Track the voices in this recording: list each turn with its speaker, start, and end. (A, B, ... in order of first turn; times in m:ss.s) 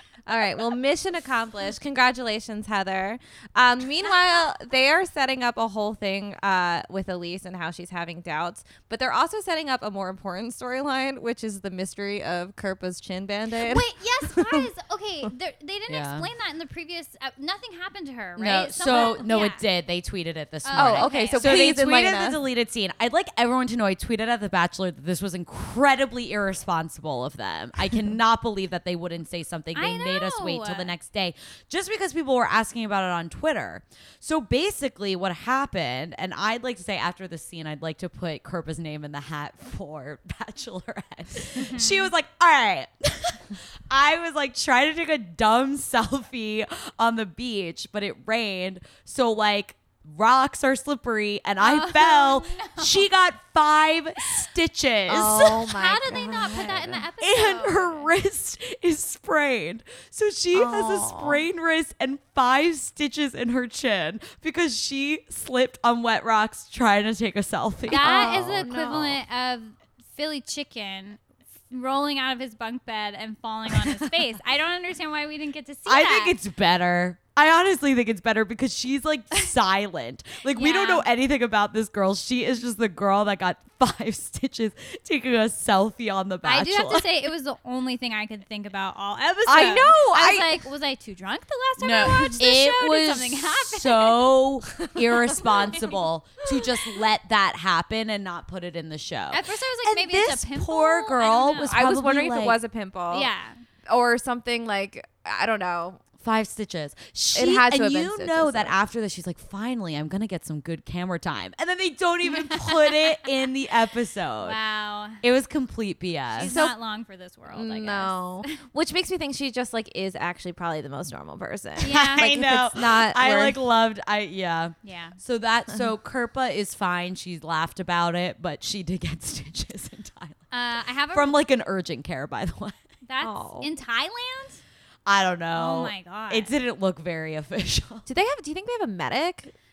0:00.3-0:14.7 A
0:13.6-0:19.6 B
0:15.9-0:16.3 C
0:18.4-0:55.7 C
0:18.9-0:19.2 A
0:20.6-0:21.8 B
0:20.7-0:22.4 A
0:29.8-0:30.9 B
0:41.5-0:42.1 B
0:51.6-0:53.1 B
0:55.1-0:57.0 A
0:55.6-0:58.1 B
0:57.2-1:09.0 C
1:00.5-1:01.4 A
1:07.9-1:16.4 B
1:08.0-1:09.2 A
1:15.9-1:27.1 C
1:20.5-1:21.1 B
1:26.4-1:34.4 B
1:29.5-1:30.7 A
1:31.8-1:42.6 C
1:35.4-1:36.0 B
1:39.3-1:41.8 B
1:41.7-1:43.3 A
1:43.1-1:43.6 B
1:43.9-1:46.0 A
1:46.2-1:54.6 C
1:47.4-1:48.8 A
1:52.2-1:53.3 B
1:54.4-1:55.2 B
1:55.2-1:56.6 C
1:56.4-1:58.6 B
1:56.4-1:56.8 A
1:57.5-2:03.6 A
2:01.8-2:02.3 B
2:01.9-2:10.5 C
2:04.8-2:05.2 B
2:10.5-2:11.4 B
2:11.1-2:12.8 C
2:13.0-2:14.6 B
2:13.2-2:13.7 A
2:15.1-2:18.1 C
2:15.5-2:16.5 B
2:18.1-2:19.5 A